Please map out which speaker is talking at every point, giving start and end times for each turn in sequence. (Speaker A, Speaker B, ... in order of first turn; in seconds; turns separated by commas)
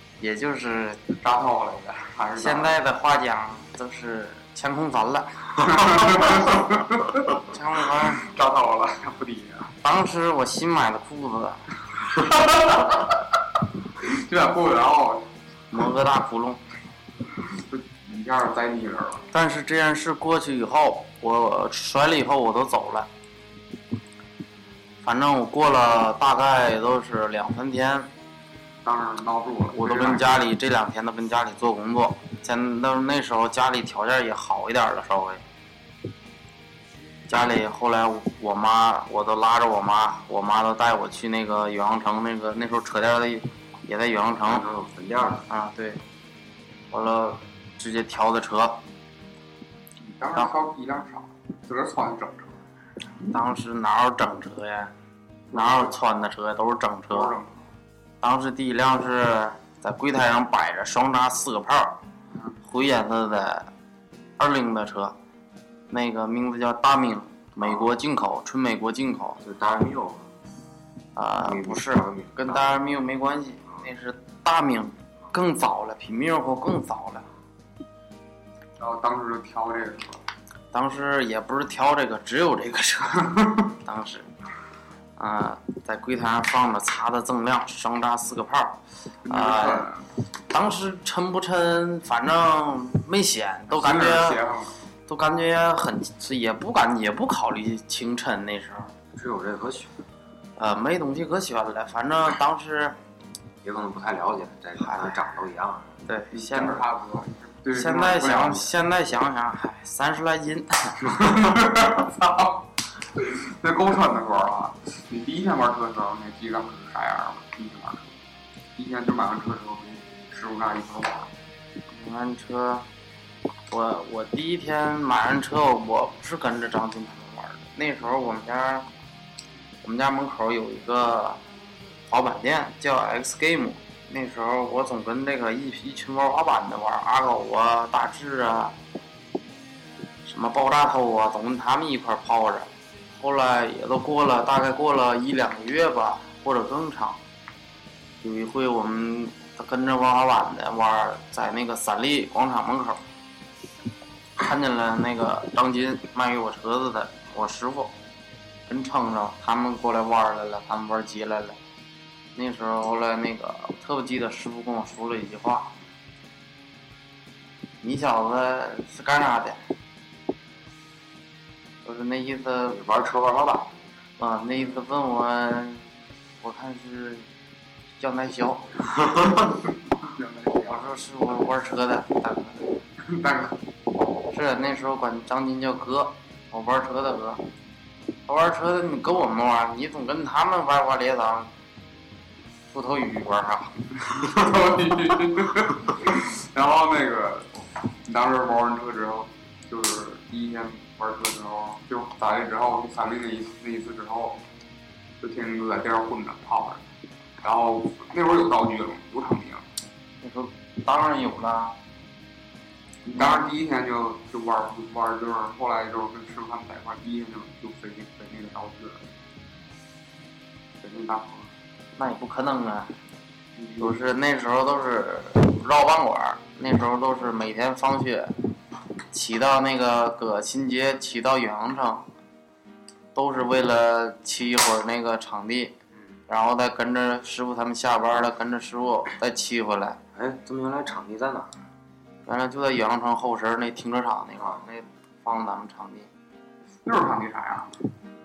Speaker A: 0.2-1.0, Speaker B: 1.1-2.8, Speaker A: 2.4-6.5, Speaker B: 5.6-7.3, Speaker A: 7.3-8.2, Speaker B: 8.2-9.7, Speaker A: 9.8-11.7, Speaker B: 12.2-13.1, Speaker B: 14.0-15.3, Speaker A: 15.7-16.6, Speaker B: 17.4-19.2, Speaker A: 19.3-23.1, Speaker A: 25.0-28.1, Speaker B: 28.8-30.4, Speaker A: 29.7-35.4, Speaker A: 37.3-44.6, Speaker C: 44.4-45.5, Speaker A: 45.5-46.0, Speaker A: 46.9-48.8, Speaker B: 50.0-52.6, Speaker A: 53.3-54.9, Speaker B: 55.5-55.9, Speaker A: 55.5-57.3, Speaker B: 57.1-57.6, Speaker A: 58.2-62.0, Speaker B: 62.3-62.5, Speaker A: 62.6-63.7, Speaker A: 64.4-65.2, Speaker A: 65.9-69.4, Speaker C: 69.4-70.3, Speaker A: 71.2-77.3, Speaker C: 71.4-72.8, Speaker B: 78.8-80.2, Speaker A: 80.7-84.3, Speaker A: 85.2-89.9, Speaker B: 89.2-90.1, Speaker A: 90.5-94.4, Speaker B: 93.7-94.7, Speaker A: 95.1-98.9, Speaker C: 99.1-100.0, Speaker A: 100.6-103.0, Speaker C: 103.6-106.0, Speaker A: 104.8-105.1, Speaker A: 106.1-106.8, Speaker B: 106.3-108.7, Speaker A: 107.7-111.2, Speaker B: 111.1-112.6, Speaker B: 113.2-118.1, Speaker B: 118.8-121.3, Speaker A: 121.9-122.8, Speaker A: 123.7-128.9, Speaker A: 129.8-131.4, Speaker A: 132.1-138.8, Speaker A: 140.2-147.2, Speaker A: 148.2-153.0, Speaker A: 154.4-157.9, Speaker A: 158.7-161.6, Speaker A: 162.3-165.7, Speaker A: 167.8-169.6, Speaker A: 171.8-172.8, Speaker C: 172.7-173.8, Speaker A: 174.2-175.9, Speaker A: 176.4-177.3, Speaker A: 178.0-178.8, Speaker B: 180.0-180.8, Speaker A: 180.6-182.8, Speaker B: 183.0-183.6, Speaker A: 184.3-187.4, Speaker A: 188.3-191.5, Speaker A: 192.7-193.8, Speaker B: 194.0-204.4, Speaker B: 205.2-206.8, Speaker B: 207.4-209.7, Speaker A: 210.2-211.8, Speaker B: 213.0-219.1, Speaker A: 213.1-213.4, Speaker B: 220.8-221.5, Speaker A: 222.0-223.0, Speaker B: 223.6-224.0, Speaker A: 223.8-228.4, Speaker A: 229.1-232.1, Speaker A: 233.1-235.7, Speaker A: 236.3-240.0, Speaker C: 240.1-241.6, Speaker A: 242.2-246.1, Speaker B: 246.8-247.8